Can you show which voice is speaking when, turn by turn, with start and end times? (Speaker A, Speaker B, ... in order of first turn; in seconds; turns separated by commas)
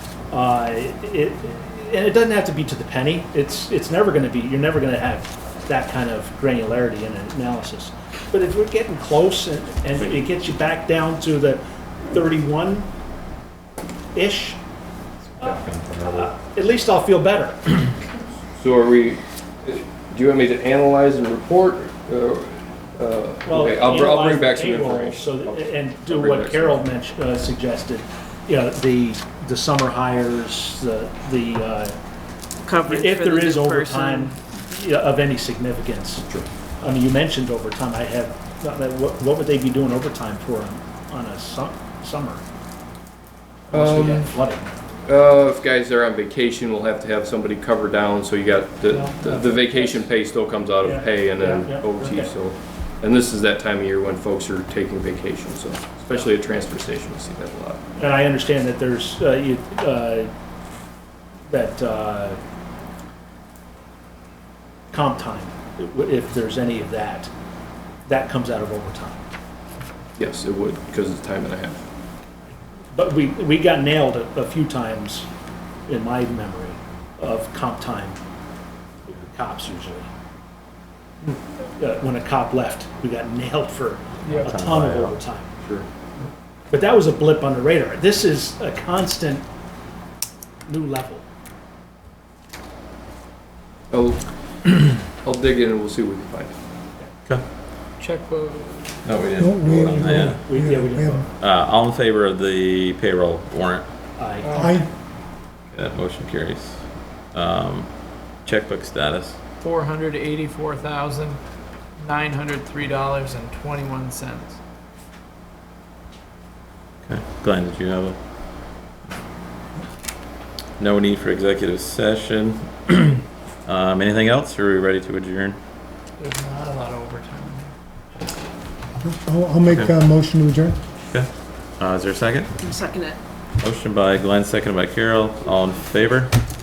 Speaker A: 0.3-12.9, Speaker A: 14.2-14.6, Speaker A: 15.4-17.8, Speaker B: 15.5-16.3, Speaker C: 18.6-26.8, Speaker A: 23.4-32.0, Speaker D: 32.6-34.3, Speaker A: 32.9-36.2, Speaker A: 36.8-42.4, Speaker A: 43.7-44.7, Speaker C: 43.7-44.3, Speaker C: 45.1-57.8, Speaker A: 48.9-50.1, Speaker A: 50.8-52.3, Speaker A: 58.0-60.3, Speaker A: 61.5-62.4, Speaker A: 64.9-67.3, Speaker A: 68.1-69.2, Speaker C: 70.2-71.8, Speaker A: 72.9-75.3, Speaker A: 75.9-78.2, Speaker A: 79.1-80.1, Speaker A: 81.8-85.5, Speaker B: 84.4-85.2, Speaker A: 86.7-89.5, Speaker A: 90.7-91.2, Speaker C: 93.9-94.3, Speaker C: 95.0-96.6, Speaker E: 98.0-98.8, Speaker B: 99.0-100.4, Speaker F: 99.4-101.3, Speaker A: 99.9-101.3, Speaker B: 101.4-103.9, Speaker A: 104.2-104.7, Speaker E: 104.4-104.8, Speaker F: 104.6-104.9, Speaker B: 105.7-109.4, Speaker E: 109.6-111.4, Speaker E: 112.0-114.6, Speaker B: 117.0-118.2, Speaker B: 120.8-125.6, Speaker E: 126.2-127.7, Speaker F: 129.0-130.8, Speaker B: 129.7-130.0, Speaker B: 131.1-132.6, Speaker D: 132.6-133.2, Speaker B: 133.6-136.3